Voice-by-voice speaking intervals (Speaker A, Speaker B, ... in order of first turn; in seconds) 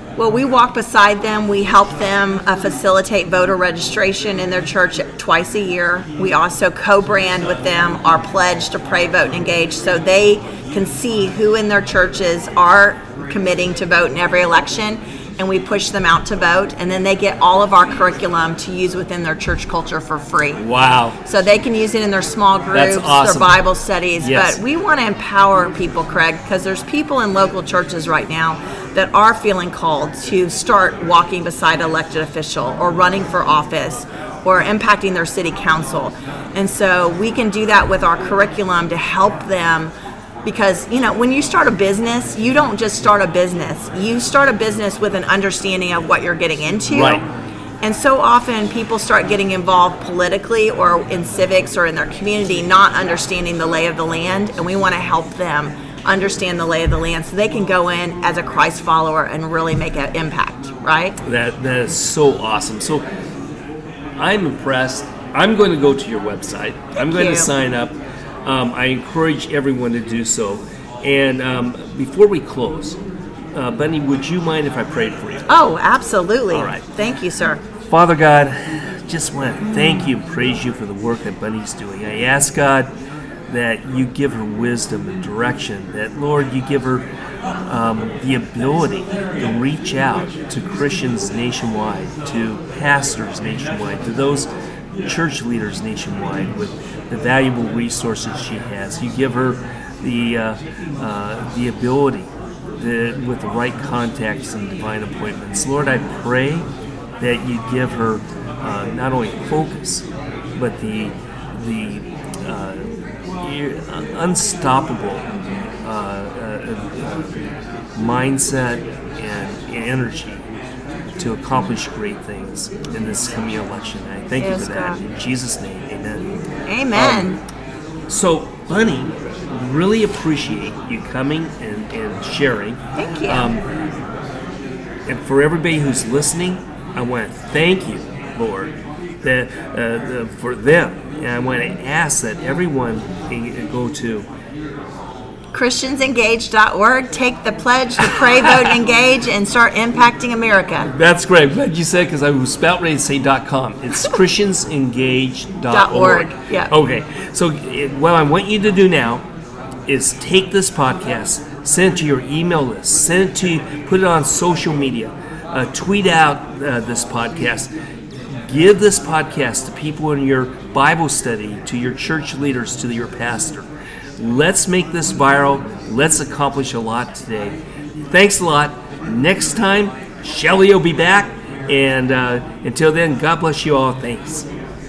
Speaker A: 0.1-20.6, 21.2-39.9, 40.4-47.2, 47.8-61.2, 67.0-67.5, 75.5-77.6, 124.4-125.0, 126.7-127.4, 132.9-133.5, 145.5-150.9, 155.7-156.7
Speaker B: 20.6-21.2, 22.7-23.6, 24.2-24.6, 46.9-47.2, 61.2-63.0, 64.2-73.0, 73.5-75.5, 76.5-76.8, 77.9-82.9, 83.5-87.1, 87.7-94.5, 95.0-106.7, 107.2-110.0, 110.5-115.2, 115.8-117.3, 117.9-120.4, 121.2-126.3, 126.9-127.3, 128.1-133.6, 135.1-144.3, 148.0-148.8, 150.9-159.2, 159.9-167.7, 168.5-173.7, 174.2-177.6, 178.1-184.5